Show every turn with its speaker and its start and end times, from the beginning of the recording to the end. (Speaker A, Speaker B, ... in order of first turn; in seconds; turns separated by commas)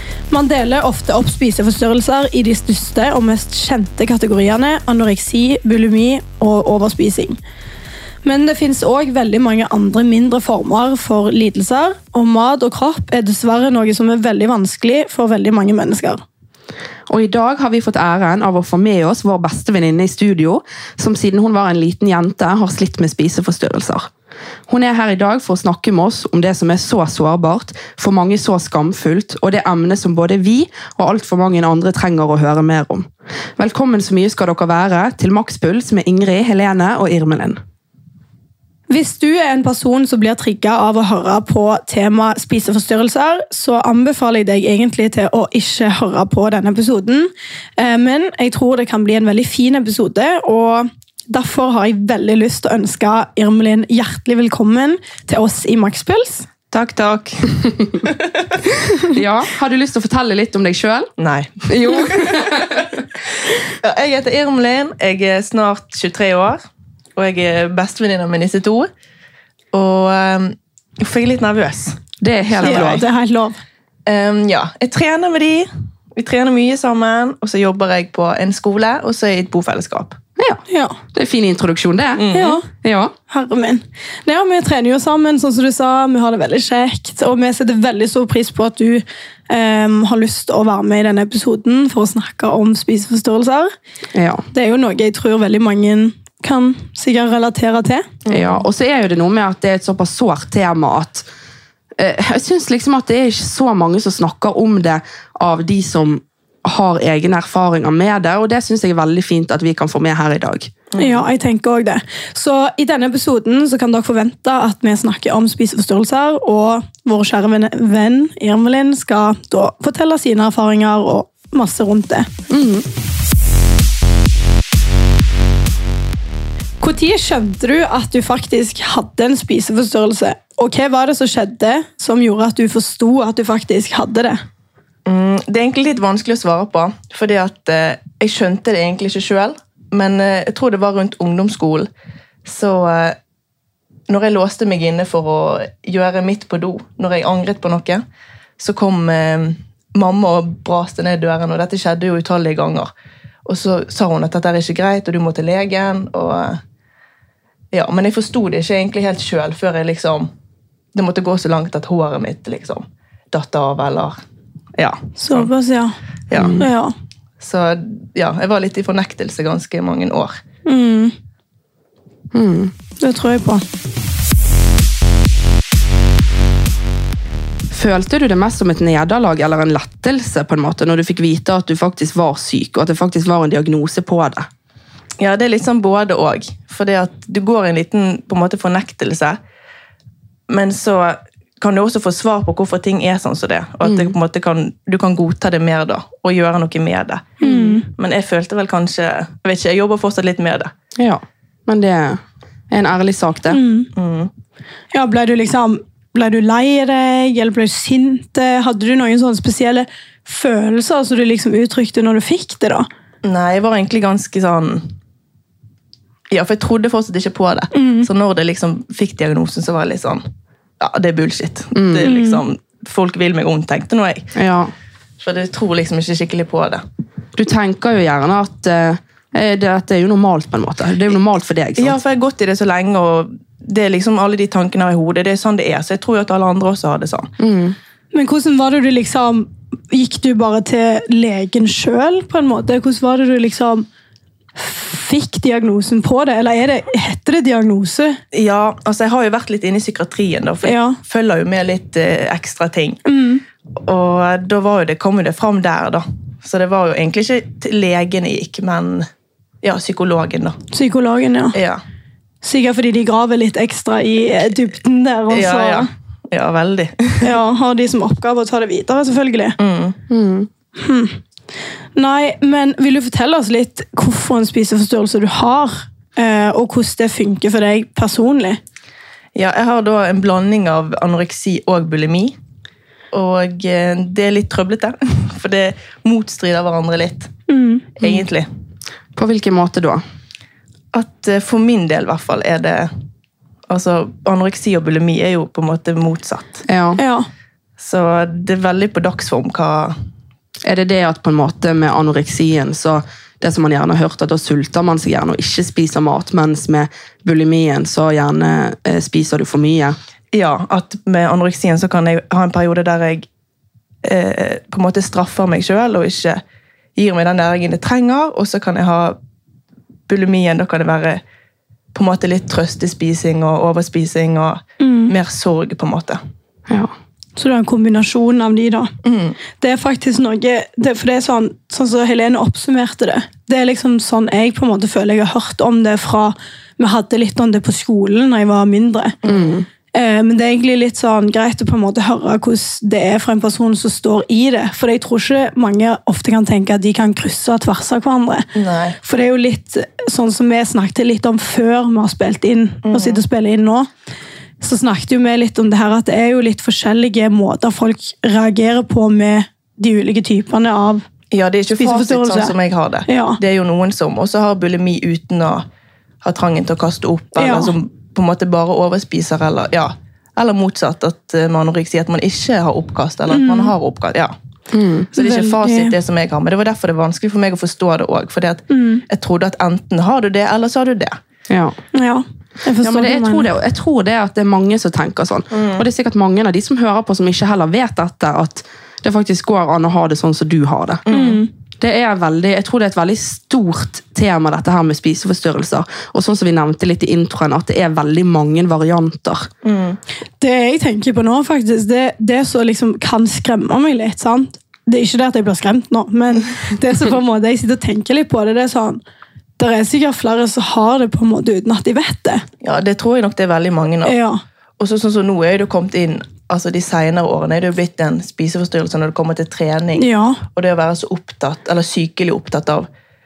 Speaker A: 0.3-7.4, Speaker A: 8.2-16.2, Speaker B: 17.1-24.1, Speaker B: 24.7-37.6, Speaker A: 38.9-56.5, Speaker C: 56.7-58.5, Speaker B: 58.7-61.1, Speaker C: 61.2-62.9, Speaker B: 61.7-63.0, Speaker C: 63.5-66.6, Speaker C: 67.2-68.9, Speaker C: 69.7-73.0, Speaker B: 72.2-73.0, Speaker A: 72.6-73.6, Speaker C: 74.1-80.2, Speaker B: 80.4-80.6, Speaker A: 80.7-81.0, Speaker B: 81.1-83.1, Speaker C: 82.2-82.6, Speaker A: 82.3-82.7, Speaker A: 83.3-93.7, Speaker B: 94.1-94.5, Speaker A: 94.5-98.1, Speaker C: 98.2-98.7, Speaker B: 98.3-101.3, Speaker B: 102.0-110.8, Speaker C: 110.9-111.2, Speaker A: 111.0-122.3, Speaker B: 122.5-122.8, Speaker A: 126.8-134.4, Speaker C: 135.1-141.9, Speaker C: 142.4-143.2, Speaker C: 144.1-148.0, Speaker C: 148.6-152.9, Speaker C: 153.4-156.6, Speaker C: 157.7-160.3, Speaker C: 160.9-164.2, Speaker C: 164.8-165.5, Speaker A: 165.2-165.9, Speaker C: 166.3-166.6, Speaker B: 166.4-166.7, Speaker A: 166.6-166.9, Speaker C: 167.4-170.4, Speaker A: 170.7-171.1, Speaker B: 172.3-172.7, Speaker A: 173.0-173.6, Speaker B: 177.7-184.5, Speaker C: 185.2-189.4, Speaker C: 190.5-200.7, Speaker B: 193.8-194.2, Speaker A: 197.4-197.9, Speaker B: 197.4-197.8, Speaker B: 201.0-203.6, Speaker A: 203.5-203.9, Speaker C: 204.0-204.3, Speaker A: 204.9-212.9, Speaker C: 213.2-214.8, Speaker C: 216.3-220.2, Speaker A: 217.7-218.1, Speaker C: 220.8-224.3, Speaker B: 221.8-222.1, Speaker A: 222.0-222.4, Speaker B: 224.3-224.7, Speaker C: 225.2-226.8, Speaker B: 227.4-232.0, Speaker C: 231.8-237.3, Speaker B: 237.4-237.8, Speaker A: 238.1-243.9, Speaker A: 244.6-248.2, Speaker C: 248.3-253.0, Speaker A: 250.7-251.0, Speaker A: 253.1-253.4, Speaker C: 253.8-259.1, Speaker C: 259.6-260.6, Speaker A: 260.7-261.6, Speaker C: 261.5-261.8, Speaker A: 262.4-265.9, Speaker C: 265.3-267.3, Speaker A: 267.2-269.6, Speaker C: 269.6-270.0, Speaker B: 270.1-270.5, Speaker A: 270.8-271.2, Speaker A: 271.9-278.6, Speaker C: 279.4-282.3, Speaker C: 283.1-287.3, Speaker A: 287.5-287.9, Speaker C: 288.0-288.5, Speaker B: 289.2-290.0, Speaker C: 290.9-292.9, Speaker C: 293.7-296.6, Speaker B: 296.7-297.0, Speaker A: 297.0-297.3, Speaker C: 297.8-299.9, Speaker B: 300.6-310.0, Speaker C: 310.3-313.3, Speaker C: 314.0-316.4, Speaker C: 317.0-319.2, Speaker C: 320.1-321.2, Speaker C: 321.9-326.2, Speaker A: 324.8-325.1, Speaker A: 327.4-328.9, Speaker C: 329.0-329.4, Speaker A: 329.6-339.2, Speaker C: 339.2-339.5, Speaker B: 339.2-339.7, Speaker A: 339.9-348.5, Speaker C: 348.5-349.0, Speaker A: 349.0-353.9, Speaker C: 352.8-353.2, Speaker A: 354.6-361.1, Speaker C: 361.3-365.6, Speaker A: 361.8-362.5, Speaker A: 363.1-363.4, Speaker C: 366.2-374.3, Speaker A: 367.4-367.7, Speaker A: 373.3-373.7, Speaker B: 374.7-375.1, Speaker C: 375.1-381.2, Speaker A: 375.2-375.9, Speaker A: 378.7-379.0, Speaker B: 381.5-381.8, Speaker A: 381.9-383.5, Speaker B: 382.8-391.0, Speaker C: 385.5-385.9, Speaker C: 391.1-391.4, Speaker A: 391.1-391.5, Speaker B: 391.8-399.5, Speaker C: 399.6-400.0, Speaker A: 400.4-409.0, Speaker A: 409.6-412.4, Speaker C: 412.6-414.2, Speaker A: 414.1-414.4, Speaker C: 414.8-422.9, Speaker A: 420.0-420.4